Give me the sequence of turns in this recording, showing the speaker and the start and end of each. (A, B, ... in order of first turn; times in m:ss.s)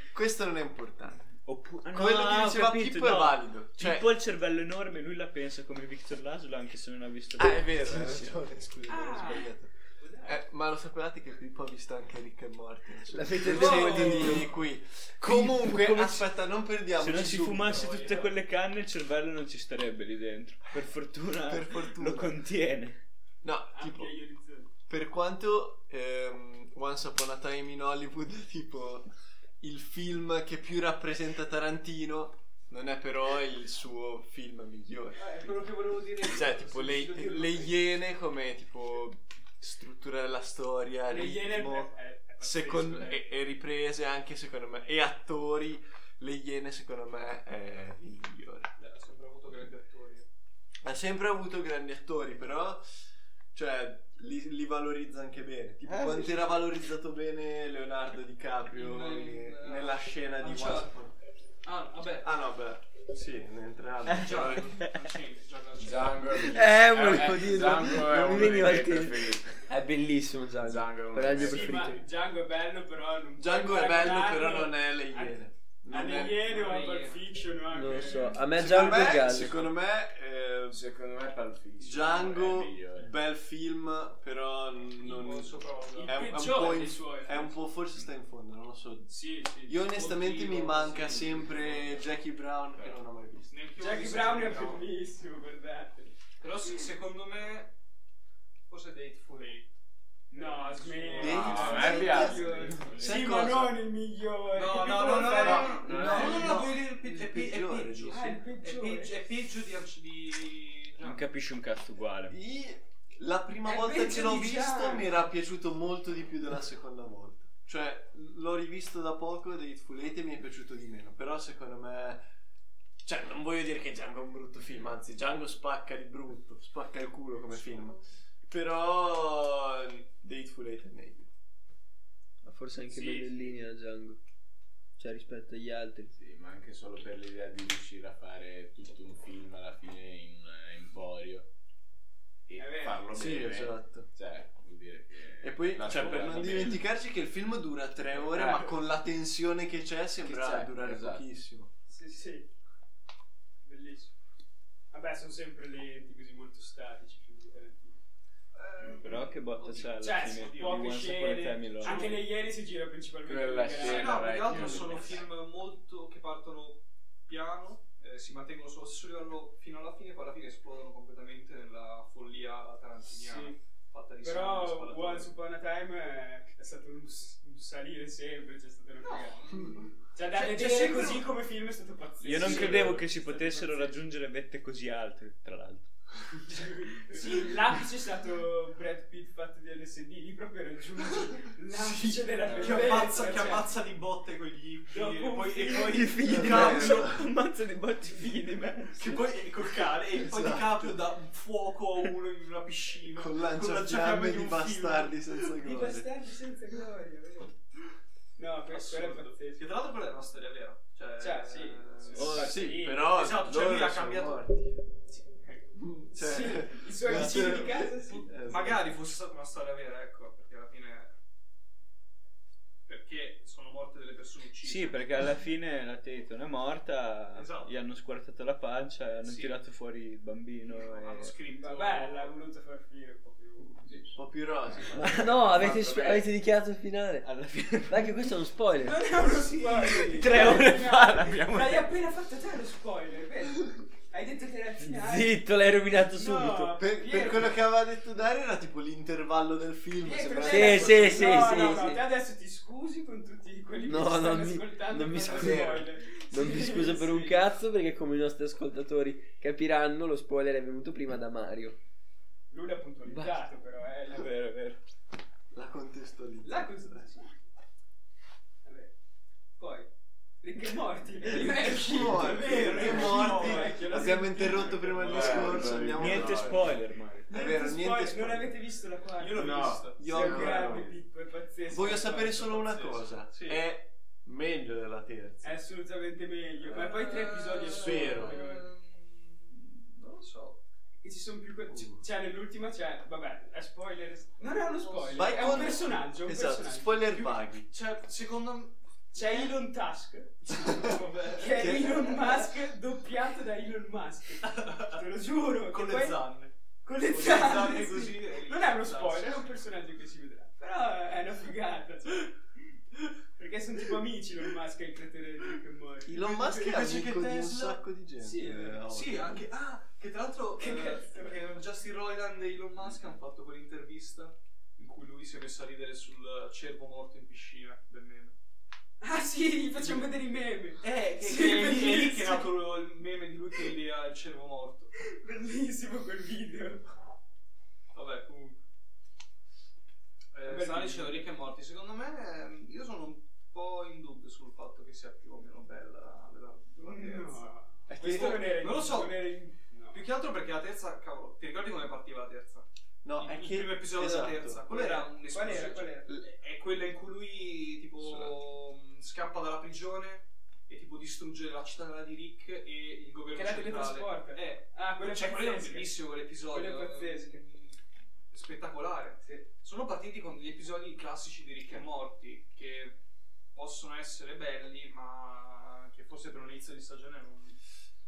0:00.1-0:01.2 A
0:01.4-0:08.3 B
0:01.9-0:04.1 A
0:07.4-0:09.7 A
0:08.8-0:09.5 C
0:10.0-0:10.3 C
0:10.2-0:17.8 A
0:13.1-0:14.5 D
0:13.8-0:14.4 C
0:15.3-0:15.9 B
0:17.0-0:23.0 B
0:17.8-0:18.2 E
0:21.5-0:22.4 A
0:23.4-0:24.2 A
0:23.7-0:24.7 C
0:24.9-0:29.1 A
0:29.6-0:35.7 A
0:35.2-0:37.8 E
0:36.2-0:48.7 A
0:41.0-0:43.2 C
0:48.8-0:50.3 E
0:50.8-0:52.8 A
0:53.5-1:01.1 A
0:58.7-1:00.9 E
1:01.6-1:02.3 E
1:02.2-1:04.8 A
1:04.1-1:07.6 E
1:05.8-1:09.6 F
1:06.4-1:12.1 D
1:10.6-1:11.8 F
1:11.4-1:15.4 C
1:13.4-1:16.4 A
1:15.9-1:18.4 C
1:16.2-1:17.3 E
1:17.7-1:19.7 D
1:18.5-1:20.8 A
1:20.7-1:23.1 F
1:21.8-1:29.1 A
1:25.0-1:26.2 E
1:25.9-1:27.6 C
1:29.1-1:29.5 C
1:29.6-1:32.1 E
1:29.7-1:33.5 A
1:32.8-1:34.9 E
1:33.8-1:36.1 C
1:36.4-1:37.7 E
1:38.7-1:39.7 E
1:40.3-1:41.6 E
1:40.3-1:45.9 C
1:41.2-1:43.8 A
1:41.3-1:43.4 F
1:42.6-1:43.1 E
1:44.5-1:51.2 E
1:45.4-1:48.3 A
1:45.4-1:46.6 F
1:48.1-1:49.2 C
1:51.0-1:52.4 B
1:52.3-2:02.2 A
1:53.6-1:55.1 C
2:03.0-2:11.3 A
2:07.4-2:08.0 E
2:12.4-2:14.2 D
2:12.9-2:13.4 E
2:15.0-2:16.1 D
2:16.2-2:21.5 F
2:22.5-2:26.8 F
2:22.6-2:23.1 C
2:23.1-2:24.1 A
2:25.4-2:31.7 A
2:25.9-2:26.7 E
2:28.3-2:28.7 F
2:30.2-2:31.3 F
2:31.9-2:32.5 C
2:33.6-2:34.1 C
2:34.9-2:38.0 C
2:38.5-2:41.0 E
2:38.8-2:42.2 B
2:40.0-2:45.2 C
2:41.8-2:42.2 E
2:43.2-2:45.2 F
2:43.8-2:55.3 E
2:53.0-2:53.6 C
2:54.2-2:59.5 C
2:59.0-3:01.4 E
3:00.1-3:04.0 C
3:02.2-3:05.9 B
3:02.2-3:03.0 E
3:06.4-3:13.7 C
3:11.7-3:17.2 E
3:14.9-3:16.1 C
3:15.7-3:19.3 B
3:16.3-3:17.2 A
3:19.0-3:25.6 E
3:20.1-3:21.0 A
3:23.2-3:26.1 A
3:25.6-3:27.5 C
3:28.4-3:29.7 C
3:28.7-3:34.4 E
3:31.2-3:33.0 C
3:32.2-3:34.8 A
3:35.8-3:38.9 A
3:36.1-3:38.3 C
3:37.1-3:41.2 E
3:42.9-3:45.3 E
3:44.6-3:51.3 B
3:47.3-3:47.8 E
3:49.2-3:49.6 E
3:50.6-3:52.3 E
3:51.6-3:54.2 C
3:53.8-3:54.1 E
3:54.2-3:55.2 A
3:54.9-3:57.3 D
3:55.0-3:55.3 B
3:55.3-3:56.3 F
3:57.2-3:58.2 B
3:57.9-3:59.0 D
3:58.8-4:05.4 C
3:59.2-4:00.1 E
4:00.0-4:01.9 B
4:04.9-4:06.8 D
4:05.9-4:07.6 C
4:06.8-4:11.6 A
4:10.0-4:17.4 C
4:10.4-4:12.1 D
4:13.8-4:21.8 D
4:15.2-4:15.9 A
4:22.5-4:24.3 C
4:23.1-4:23.4 D
4:24.1-4:24.8 B
4:25.5-4:27.1 A
4:26.4-4:27.4 C
4:28.6-4:28.9 C
4:29.6-4:29.9 C
4:30.4-4:35.7 C
4:31.3-4:36.7 A
4:32.1-4:34.8 E
4:34.9-4:36.8 F
4:35.9-4:37.3 B
4:37.3-4:42.3 C
4:37.3-4:38.5 A
4:39.2-4:40.1 E
4:39.3-4:41.0 F
4:40.0-4:40.8 A
4:41.7-4:45.6 A
4:42.2-4:43.7 E
4:45.4-4:48.7 C
4:46.7-4:50.6 E
4:47.7-4:48.4 A
4:51.0-4:57.1 C
4:51.7-4:52.0 A
4:54.4-4:55.8 E
4:55.1-4:57.7 A
4:57.1-4:59.6 E
4:59.1-5:06.2 C
5:00.4-5:02.6 E
5:01.6-5:01.9 A
5:04.4-5:09.4 E
5:06.8-5:12.4 C
5:13.3-5:16.3 C
5:16.1-5:19.4 A
5:16.2-5:17.8 E
5:18.2-5:18.8 C
5:18.9-5:28.3 E
5:20.6-5:21.3 C
5:29.0-5:32.5 C
5:29.8-5:30.1 E
5:30.8-5:34.9 E
5:35.0-5:36.8 C
5:37.9-5:38.6 E
5:40.3-5:52.7 E
5:40.4-5:41.3 C
5:46.8-5:50.0 C
5:53.0-5:54.8 A
5:53.2-6:07.8 E
5:54.7-5:56.1 C
5:58.0-5:58.4 A
6:03.3-6:06.0 C
6:06.5-6:07.4 C
6:08.3-6:13.0 E
6:09.2-6:09.5 C
6:13.6-6:17.6 E